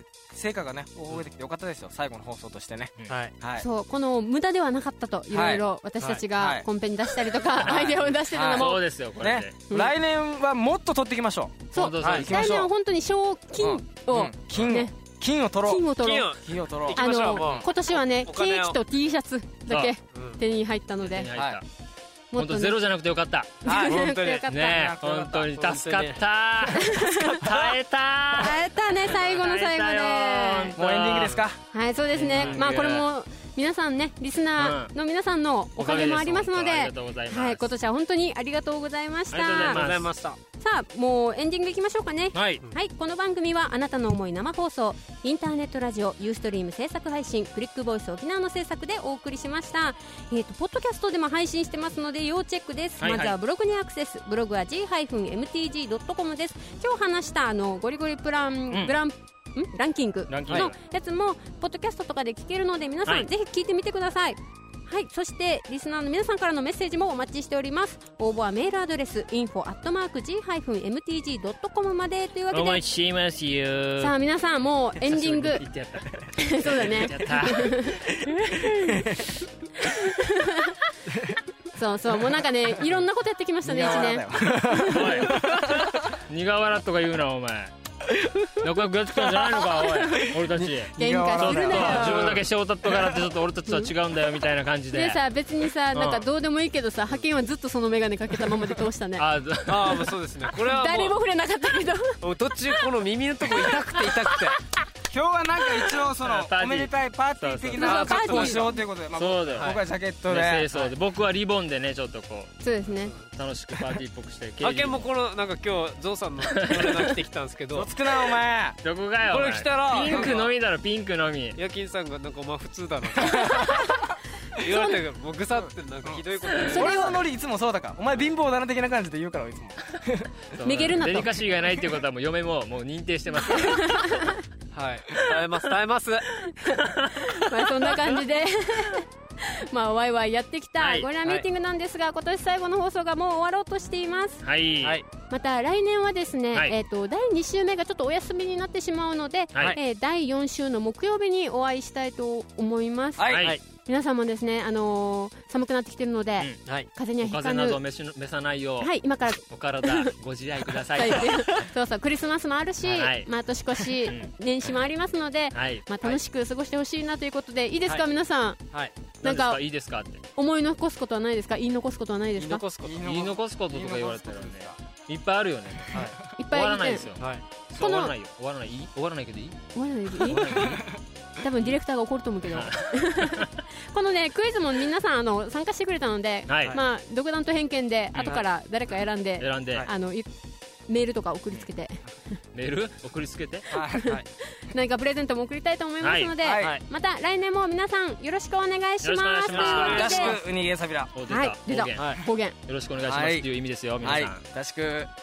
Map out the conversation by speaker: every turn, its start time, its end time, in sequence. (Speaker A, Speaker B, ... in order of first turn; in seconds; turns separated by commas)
Speaker A: 0.3-3.6, Speaker B: 3.6-8.9, Speaker A: 5.3-5.6, Speaker A: 6.3-6.7, Speaker C: 7.6-9.6, Speaker A: 8.3-12.7, Speaker B: 11.7-14.9, Speaker C: 11.7-12.3, Speaker D: 12.0-12.2, Speaker A: 13.6-17.7, Speaker B: 15.7-16.3, Speaker D: 16.0-18.8, Speaker B: 16.9-21.3, Speaker D: 20.1-20.4, Speaker C: 21.1-21.6, Speaker A: 21.4-21.6, Speaker B: 22.3-22.8, Speaker C: 22.4-23.6, Speaker B: 23.6-24.8, Speaker A: 23.7-25.5, Speaker D: 23.7-24.5, Speaker C: 24.5-31.5, Speaker D: 25.6-26.2, Speaker B: 26.7-27.4, Speaker D: 27.0-27.8, Speaker B: 28.4-30.8, Speaker A: 30.8-31.6, Speaker B: 31.7-39.8, Speaker C: 32.1-33.1, Speaker D: 32.4-32.7, Speaker C: 34.6-34.9, Speaker C: 35.8-37.7, Speaker C: 39.3-40.1, Speaker D: 39.7-40.4, Speaker B: 40.6-72.8, Speaker C: 42.3-42.6, Speaker C: 53.0-53.4, Speaker C: 60.3-60.7, Speaker C: 72.5-74.2, Speaker B: 74.0-75.7, Speaker C: 75.0-78.1, Speaker B: 76.4-79.2, Speaker A: 78.7-79.2, Speaker B: 79.8-80.8, Speaker A: 81.1-81.4, Speaker B: 81.7-85.3, Speaker A: 83.6-86.0, Speaker C: 84.8-87.8, Speaker A: 88.2-88.5, Speaker C: 88.6-95.2, Speaker A: 90.3-93.2, Speaker B: 91.0-92.4, Speaker B: 94.9-99.2, Speaker C: 95.9-96.2, Speaker C: 99.2-100.2, Speaker D: 99.7-101.2, Speaker B: 100.6-102.2, Speaker D: 102.2-104.6, Speaker B: 103.8-104.2, Speaker A: 105.1-110.7, Speaker C: 106.2-109.8, Speaker D: 107.8-108.7, Speaker B: 107.8-108.8, Speaker C: 110.3-112.6, Speaker B: 112.6-113.1, Speaker C: 113.3-115.1, Speaker D: 114.6-117.9, Speaker C: 116.5-117.0, Speaker A: 117.8-118.8, Speaker C: 118.8-121.6, Speaker D: 119.3-120.4, Speaker A: 119.9-120.5, Speaker D: 121.6-123.9, Speaker A: 123.2-123.5, Speaker B: 123.3-123.9, Speaker D: 124.6-127.2, Speaker B: 124.7-125.0, Speaker A: 126.0-130.4, Speaker B: 126.6-127.2, Speaker C: 130.6-134.2, Speaker B: 130.6-131.4, Speaker B: 133.4-134.4, Speaker D: 134.7-136.4, Speaker B: 136.5-144.4, Speaker C: 140.8-141.1, Speaker C: 144.4-145.0, Speaker B: 145.3-157.8, Speaker A: 153.2-153.6, Speaker C: 153.3-153.6, Speaker C: 157.2-161.6, Speaker B: 158.8-160.1, Speaker B: 160.9-168.6, Speaker C: 162.8-163.3, Speaker C: 164.0-164.3, Speaker C: 165.5-165.8, Speaker B: 169.2-169.6, Speaker C: 169.2-170.2, Speaker B: 170.4-172.7, Speaker D: 172.4-172.9, Speaker A: 172.8-174.8, Speaker C: 173.0-179.6, Speaker B: 176.4-177.2, Speaker D: 177.2-177.4, Speaker B: 177.8-178.1, Speaker B: 179.8-180.7, Speaker C: 180.2-180.9, Speaker D: 180.3-180.8, Speaker B: 181.4-190.3, Speaker C: 182.5-183.5, Speaker C: 186.5-186.8, Speaker C: 189.4-189.9, Speaker B: 190.9-192.0, Speaker C: 192.5-193.8, Speaker A: 193.7-194.1, Speaker B: 193.9-200.4, Speaker C: 196.0-196.3, Speaker A: 196.4-196.8, Speaker C: 199.0-200.4, Speaker D: 199.5-200.4, Speaker A: 199.8-201.1, Speaker C: 201.1-204.4, Speaker B: 201.3-202.6, Speaker D: 202.0-202.2, Speaker A: 203.0-203.5, Speaker A: 204.0-205.1